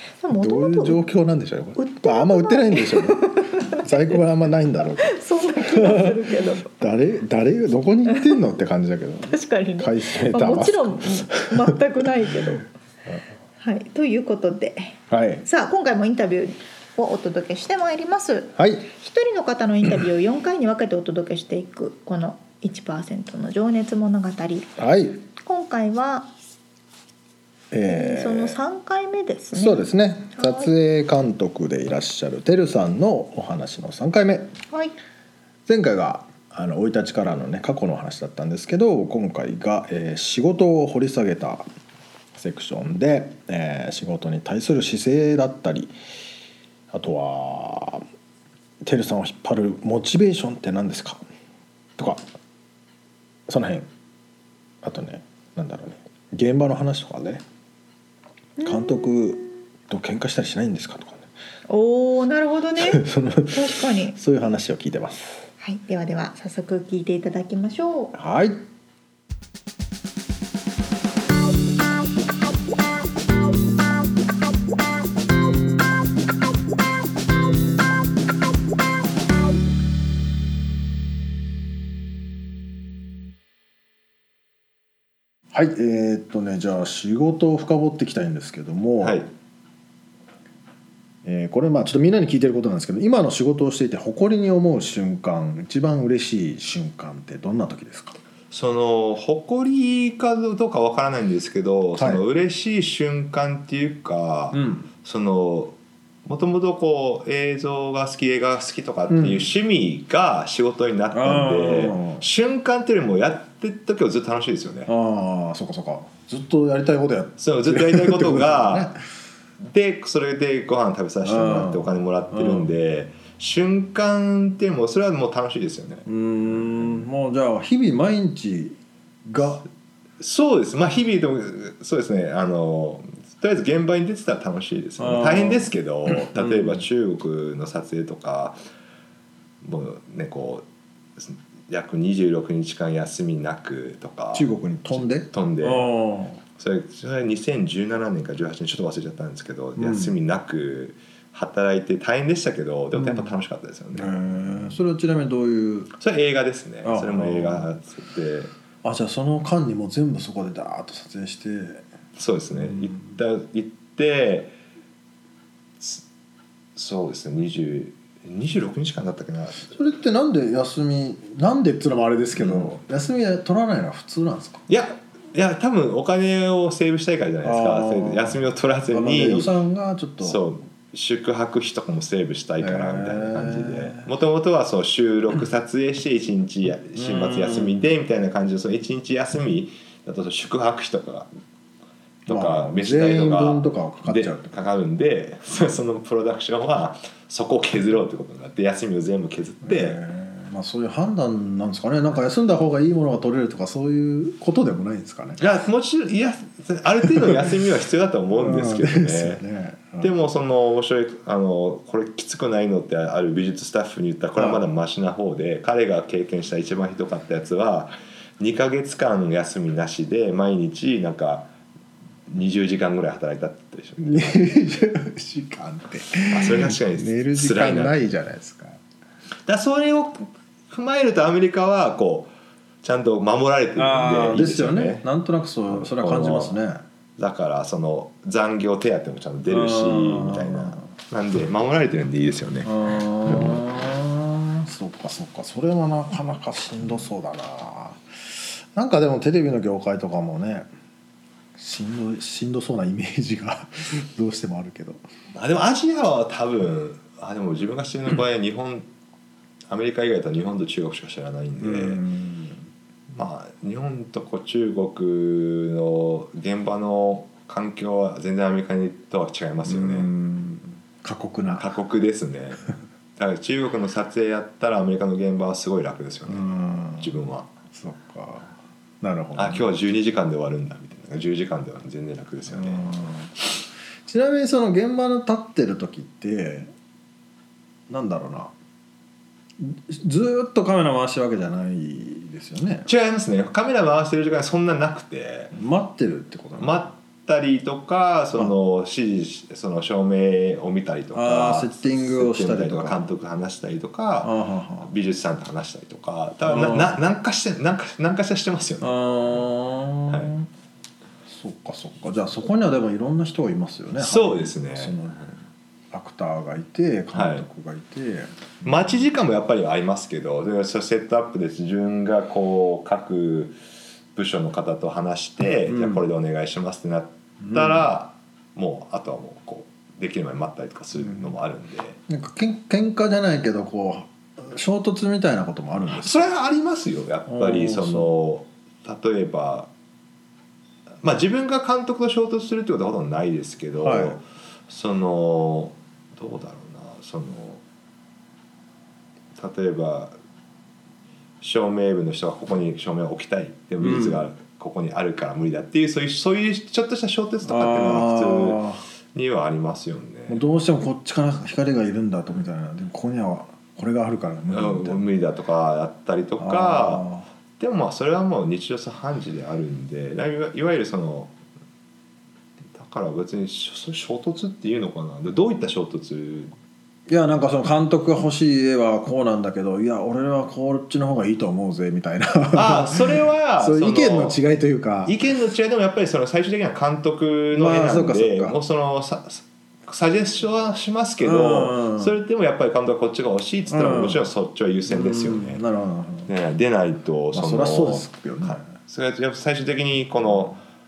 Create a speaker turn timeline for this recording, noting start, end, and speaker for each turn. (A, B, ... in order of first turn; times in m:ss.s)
0:00.2-0:01.0 A
0:00.3-0:12.6 B
0:01.8-0:04.2 A
0:05.0-0:06.7 A
0:08.1-0:08.3 A
0:09.3-0:12.6 A
0:13.6-0:24.7 A
0:15.1-0:15.4 B
0:18.6-0:18.9 B
0:24.8-0:25.2 B
0:25.4-0:26.3 A
0:27.7-0:28.6 B
0:27.9-0:30.7 A
0:29.5-0:34.5 B
0:35.7-0:41.7 B
0:42.3-0:45.9 B
0:46.9-0:48.0 B
0:48.8-0:51.2 B
0:53.5-0:53.9 B
0:54.8-0:57.4 B
0:58.6-0:59.2 A
0:58.6-1:01.3 B
1:01.7-1:04.2 A
1:02.8-1:05.5 B
1:05.6-1:08.1 A
1:08.1-1:08.6 B
1:25.5-1:29.2 B
1:29.0-1:29.3 C
1:31.2-1:38.2 B
1:38.5-1:54.9 C
1:42.0-1:42.2 B
1:44.5-1:44.9 B
1:49.1-1:49.5 B
1:51.1-1:52.2 B
1:54.9-1:59.0 B
1:57.4-1:58.9 C
1:59.6-2:07.1 C
2:01.2-2:02.7 B
2:06.0-2:09.6 B
2:10.2-2:18.6 C
2:15.0-2:16.8 B
2:19.6-2:20.6 C
2:21.2-2:25.9 C
2:24.3-2:26.4 B
2:26.6-2:34.2 C
2:29.8-2:30.2 B
2:32.9-2:33.3 B
2:33.9-2:35.9 B
2:36.0-2:38.5 C
2:36.8-2:37.7 B
2:38.8-2:41.8 B
2:42.2-2:44.5 C
2:46.8-2:49.7 C
2:49.7-2:54.6 B
2:52.4-2:52.7 C
2:54.7-2:59.5 C
2:57.4-2:58.4 B
2:58.9-3:00.4 B
3:00.2-3:11.3 C
3:02.6-3:04.0 B
3:07.0-3:07.9 B
3:12.2-3:20.0 C
3:12.3-3:14.6 B
3:19.6-3:25.4 B
3:25.4-3:29.4 C
3:27.0-3:27.5 B
3:28.4-3:30.1 B
3:30.0-3:41.5 C
3:34.4-3:34.6 B
3:42.3-3:44.6 C
3:44.0-3:48.8 B
3:46.2-3:48.0 C
3:49.5-3:52.3 C
3:52.8-3:55.0 C
3:53.8-3:56.8 B
3:55.7-3:56.5 C
3:57.2-4:03.7 C
3:59.5-4:00.8 B
4:02.6-4:10.7 B
4:11.5-4:15.0 B
4:15.3-4:18.9 C
4:19.7-4:22.0 C
4:21.6-4:22.6 B
4:23.1-4:30.1 C
4:29.6-4:31.7 B
4:31.6-4:37.5 C
4:36.3-4:37.1 B
4:37.7-4:39.7 B
4:39.3-4:43.1 C
4:42.5-4:43.3 B
4:44.0-4:46.7 B
4:47.9-4:48.5 B
4:49.6-4:52.9 B
4:52.8-4:55.5 C
4:55.5-4:56.9 B
4:56.6-5:09.4 C
5:01.1-5:03.0 B
5:04.2-5:04.9 B
5:06.4-5:07.0 B
5:08.8-5:10.5 B
5:10.1-5:10.3 C
5:11.3-5:15.2 B
5:14.0-5:15.3 C
5:15.9-5:19.0 B
5:17.1-5:17.4 C
5:18.6-5:23.6 C
5:24.1-5:32.0 C
5:25.6-5:26.0 B
5:27.4-5:27.8 B
5:32.1-5:36.3 B
5:35.9-5:39.7 C
5:37.3-5:38.1 B
5:41.0-5:47.6 C
5:43.8-5:44.2 B
5:49.4-5:50.1 C
5:51.4-6:00.4 C
5:53.8-5:54.2 B
5:57.4-5:58.8 B
6:00.3-6:05.0 B
6:04.5-6:07.0 C
6:06.4-6:07.2 B
6:07.6-6:11.3 C
6:12.7-6:16.5 C
6:17.1-6:25.2 B
6:22.5-6:24.4 C
6:25.0-6:35.6 C
6:27.5-6:28.6 B
6:31.2-6:32.2 B
6:33.7-6:34.2 B
6:34.9-6:36.3 B
6:36.3-6:40.6 C
6:37.3-6:38.6 B